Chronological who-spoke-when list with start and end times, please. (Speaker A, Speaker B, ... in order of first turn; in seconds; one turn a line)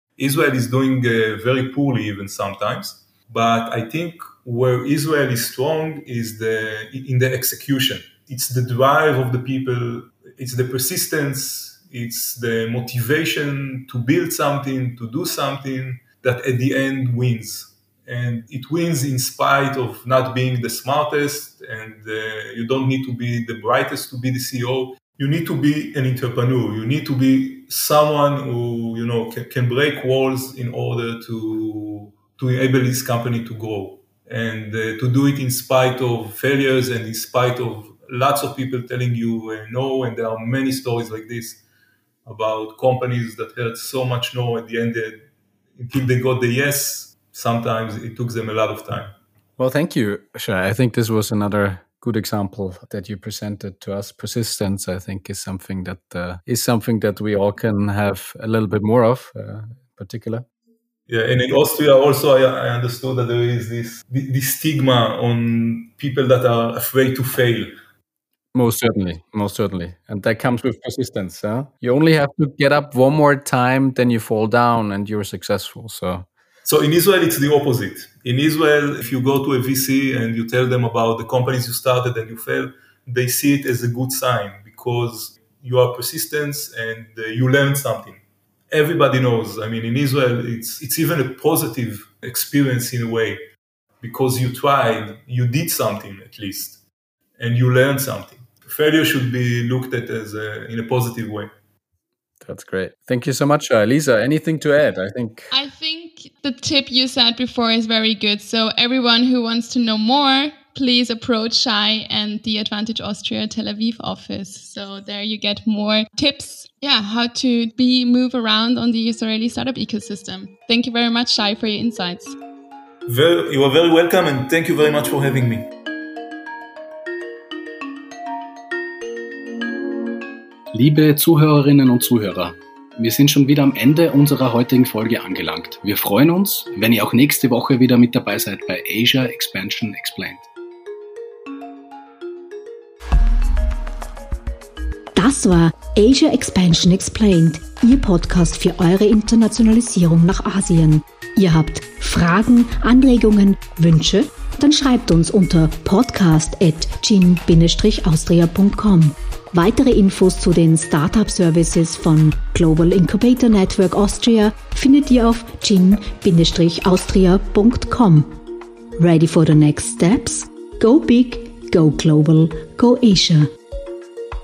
Speaker A: 0.2-41.6
Speaker A: 42.2-49.1
Speaker B: 49.6-60.5
Speaker A: 61.1-67.7
Speaker B: 68.5-76.3
Speaker A: 76.6-93.4
Speaker A: 94.0-96.8
Speaker A: 97.4-101.5
Speaker B: 102.4-105.5
Speaker C: 105.5-122.4
Speaker A: 123.1-125.7
Speaker B: 130.7-140.5
Speaker D: 145.1-168.3
Speaker D: 169.0-173.5